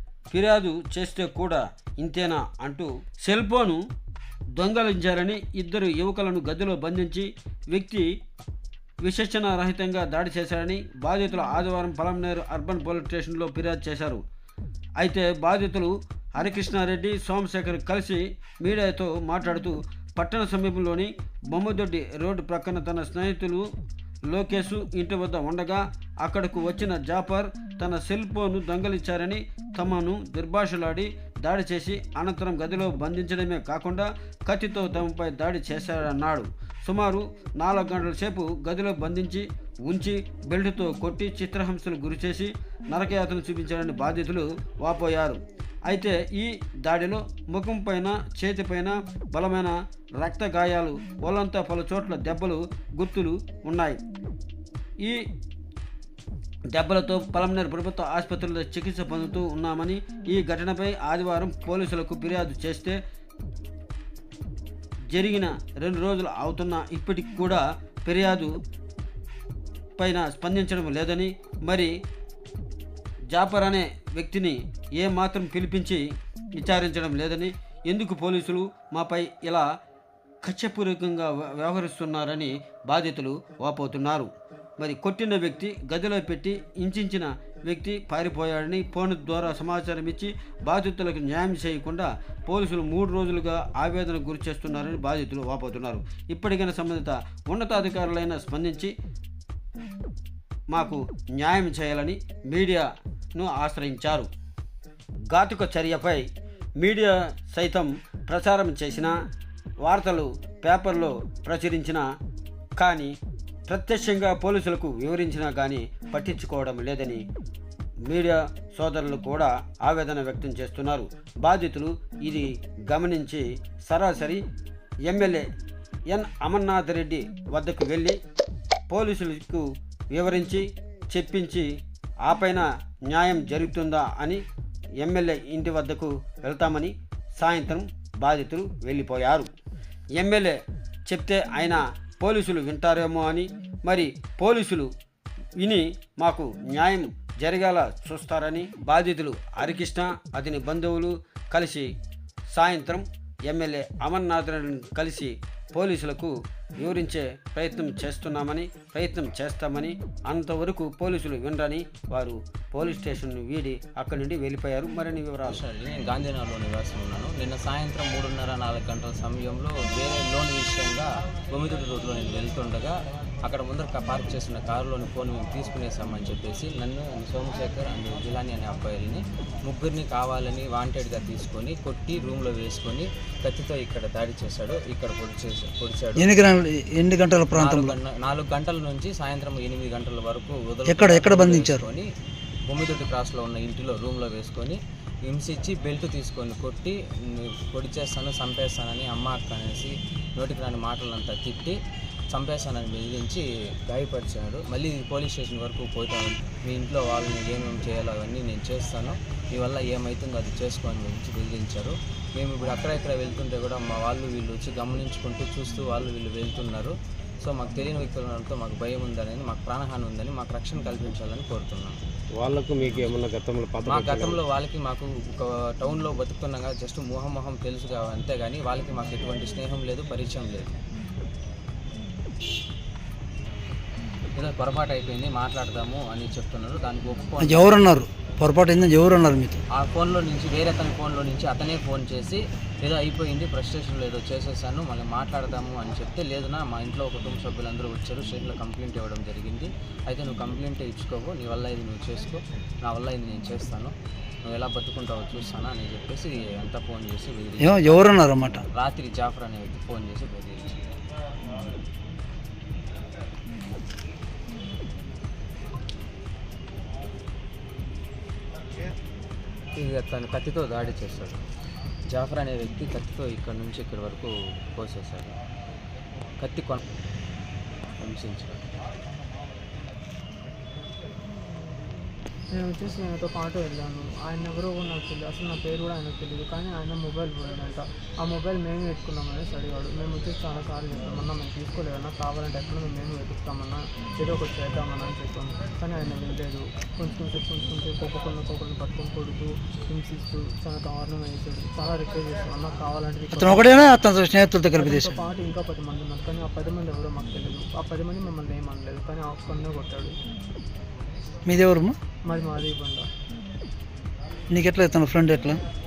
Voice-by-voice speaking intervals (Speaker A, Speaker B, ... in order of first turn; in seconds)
Speaker A: 0.3-3.8, 4.5-8.1, 9.0-14.2, 15.0-23.6, 24.3-54.0, 56.7-63.0, 65.1-68.5, 70.0-71.9, 73.3-79.7, 80.4-98.9, 100.7-104.3, 105.3-106.2, 106.8-109.1, 109.8-112.0, 112.8-117.3, 118.0-124.4, 125.0-125.5, 126.1-128.2, 128.9-131.7, 132.2-134.4, 135.0-139.5, 140.1-144.9, 145.6-151.9, 152.5-165.6
Speaker B: 165.4-186.3, 187.5-192.1, 192.7-201.8, 202.3-222.0, 223.8-230.7, 234.3-237.8, 239.7-258.2, 258.7-260.9, 269.7-271.4, 272.1-275.4, 276.4-276.8, 278.0-278.6
Speaker C: 186.2-187.9, 190.8-191.8, 237.4-239.6, 257.6-258.6, 303.3-305.1, 311.4-311.9, 314.5-315.6
Speaker D: 222.3-224.4
Speaker E: 282.5-303.7, 304.7-310.1, 312.2-313.1